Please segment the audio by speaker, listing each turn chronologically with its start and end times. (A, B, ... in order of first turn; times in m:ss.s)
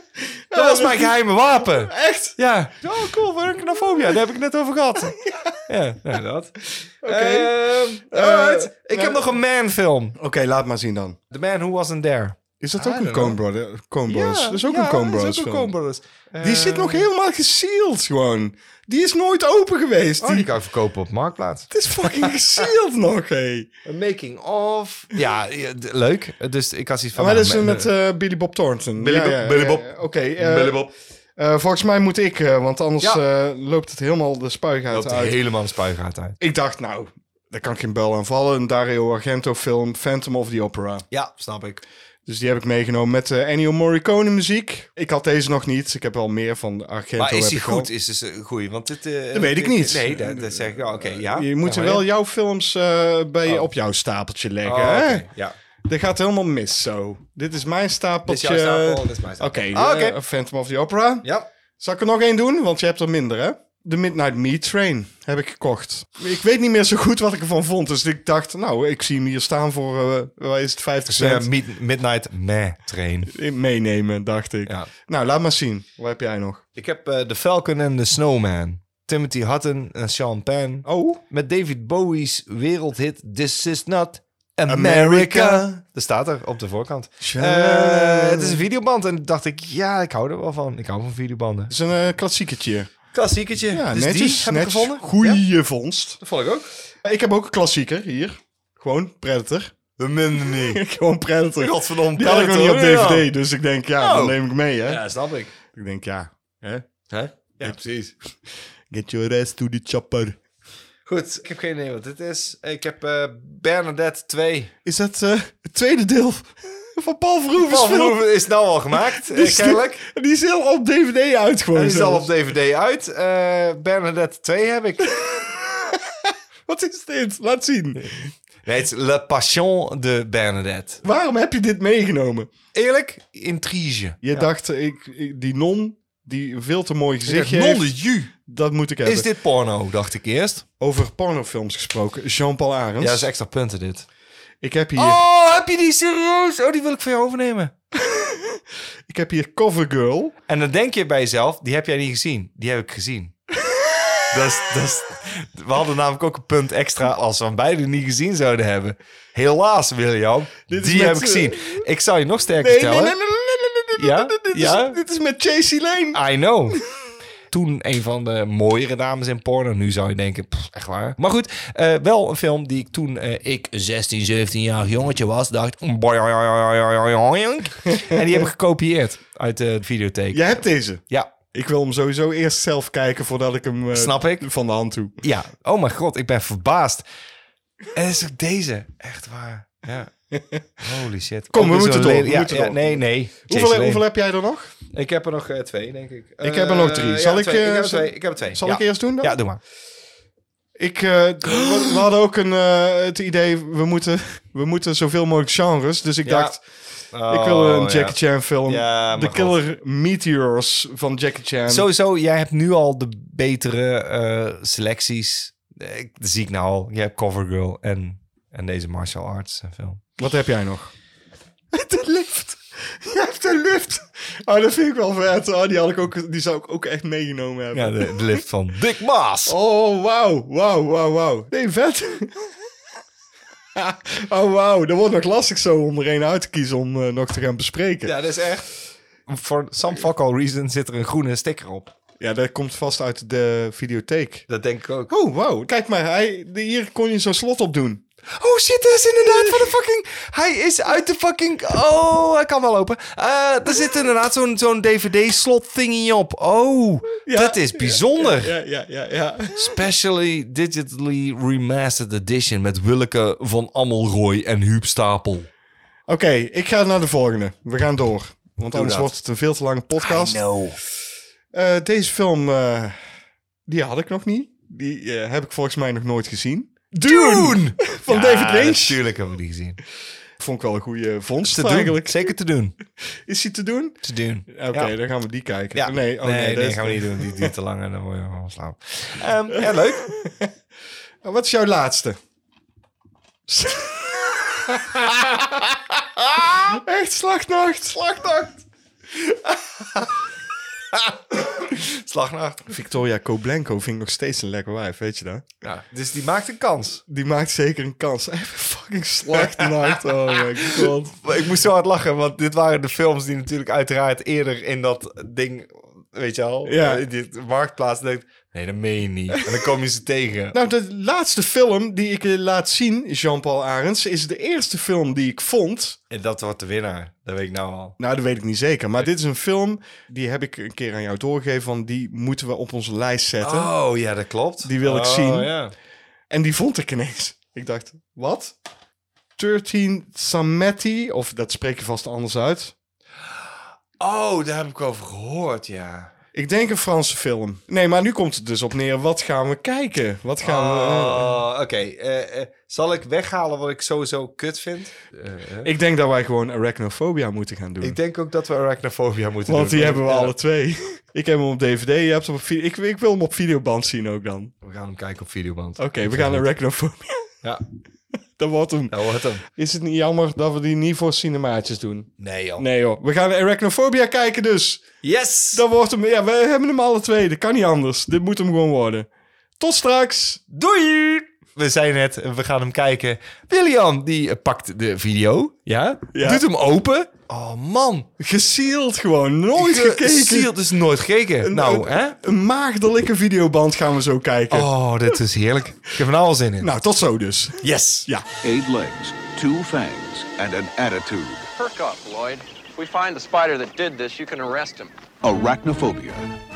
0:00.2-0:02.4 A
0:00.5-0:05.2 B
0:05.3-0:05.6 A
0:05.7-0:10.2 B
0:07.0-0:09.4 A
0:10.2-0:11.2 A
0:11.3-0:13.4 B
0:12.6-0:15.7 A
0:14.1-0:17.1 B
0:16.4-0:20.5 A
0:20.2-0:22.7 B
0:21.7-0:23.7 A
0:23.9-0:27.9 B
0:27.2-0:30.8 A
0:29.0-0:30.9 B
0:31.4-0:35.4 A
0:34.9-0:36.4 B
0:36.4-0:41.0 A
0:41.1-0:41.8 B
0:42.3-0:47.9 A
0:47.2-0:52.0 B
0:49.3-0:55.3 A
0:54.6-0:55.5 B
0:55.9-1:01.3 A
0:58.3-1:00.2 B
1:01.2-1:01.5 B
1:01.8-1:11.5 A
1:11.1-1:13.3 B
1:13.3-1:16.6 A
1:16.8-1:31.7 B
1:20.8-1:21.2 A
1:24.7-1:25.8 A
1:27.2-1:28.6 A
1:31.7-1:32.9 A
1:33.1-1:35.4 B
1:33.7-1:36.2 A
1:36.2-1:36.7 B
1:37.0-1:39.7 A
1:40.0-1:40.8 B
1:40.5-1:45.0 A
1:41.6-1:43.3 B
1:44.0-1:45.5 B
1:45.7-1:46.8 A
1:47.1-1:48.1 B
1:48.9-1:50.4 A
1:51.1-1:54.7 B
1:54.8-1:58.2 A
1:57.6-2:00.0 B
1:59.0-2:02.3 A
2:01.7-2:05.2 B
2:05.2-2:08.3 A
2:08.6-2:11.0 B
2:11.0-2:12.5 A
2:12.7-2:14.5 B
2:14.2-2:17.9 A
2:17.3-2:18.3 B
2:18.4-2:19.3 A
2:19.0-2:20.6 B
2:20.8-2:23.3 A
2:23.0-2:24.0 B
2:24.6-2:25.2 A
2:25.0-2:27.7 B
2:28.0-2:30.4 A
2:30.5-2:33.4 B
2:33.7-2:34.3 A
2:34.3-2:43.2 B
2:40.7-2:41.8 A
2:42.6-2:46.2 A
2:44.0-2:45.0 B
2:46.1-2:46.8 B
2:47.5-3:01.3 B
2:58.0-2:58.4 A
3:00.3-3:05.2 A
3:03.9-3:04.5 B
3:05.2-3:07.0 B
3:07.9-3:10.1 B
3:10.3-3:10.7 A
3:10.8-3:14.0 B
3:11.5-3:14.7 A
3:14.9-3:19.6 B
3:16.4-3:19.4 A
3:20.8-3:26.6 A
3:21.5-3:22.0 B
3:26.2-3:26.6 B
3:27.1-3:29.6 B
3:27.3-3:31.9 A
3:31.7-3:40.0 B
3:40.2-3:40.9 A
3:41.7-3:48.4 A
3:47.7-3:49.5 B
3:49.5-3:52.5 A
3:53.8-3:58.1 A
3:58.0-3:58.7 B
3:59.3-4:01.9 B
4:02.2-4:04.5 A
4:04.5-4:05.1 B
4:05.1-4:08.0 A
4:08.3-4:18.6 B
4:09.3-4:09.7 A
4:17.2-4:19.7 A
4:19.6-4:25.5 B
4:26.1-4:30.4 A
4:28.7-4:29.1 B
4:30.0-4:30.8 B
4:31.5-4:33.0 A
4:33.7-4:39.0 A
4:37.0-4:39.8 B
4:40.4-4:42.3 A
4:41.5-4:42.7 B
4:43.3-4:47.5 A
4:44.0-4:44.9 B
4:45.7-4:50.1 B
4:49.6-4:50.5 A
4:51.2-4:52.2 A
4:53.5-4:55.6 A
4:56.6-4:58.4 A
4:58.0-4:58.5 B
4:59.5-5:00.1 B
5:00.9-5:02.7 B
5:02.7-5:05.4 A
5:05.6-5:07.0 B
5:07.1-5:11.2 A
5:09.3-5:20.6 B
5:16.6-5:17.0 A
5:20.5-5:26.0 A
5:26.1-5:28.0 B
5:28.0-5:33.7 A
5:33.4-5:35.7 B
5:34.6-5:35.5 A
5:36.3-5:38.5 A
5:39.4-5:42.7 A
5:43.2-5:46.1 B
5:46.3-5:51.4 A
5:50.4-5:55.7 B
5:55.6-5:58.0 A
5:57.8-6:00.3 B
5:59.5-6:04.5 A
6:04.6-6:06.4 B
6:05.8-6:07.3 A
6:08.4-6:09.0 A
6:08.9-6:09.4 B
6:09.6-6:14.8 A
6:12.2-6:12.6 B
6:15.0-6:15.6 B
6:15.5-6:19.1 A
6:19.6-6:20.4 A
6:20.5-6:28.1 B
6:26.1-6:26.4 A
6:28.2-6:30.5 A
6:29.6-6:32.2 B
6:31.4-6:34.7 A
6:34.5-6:36.7 B
6:36.6-6:38.2 A
6:37.6-6:38.1 B
6:38.4-6:41.5 C
6:41.6-6:44.9 D
6:45.2-6:46.2 C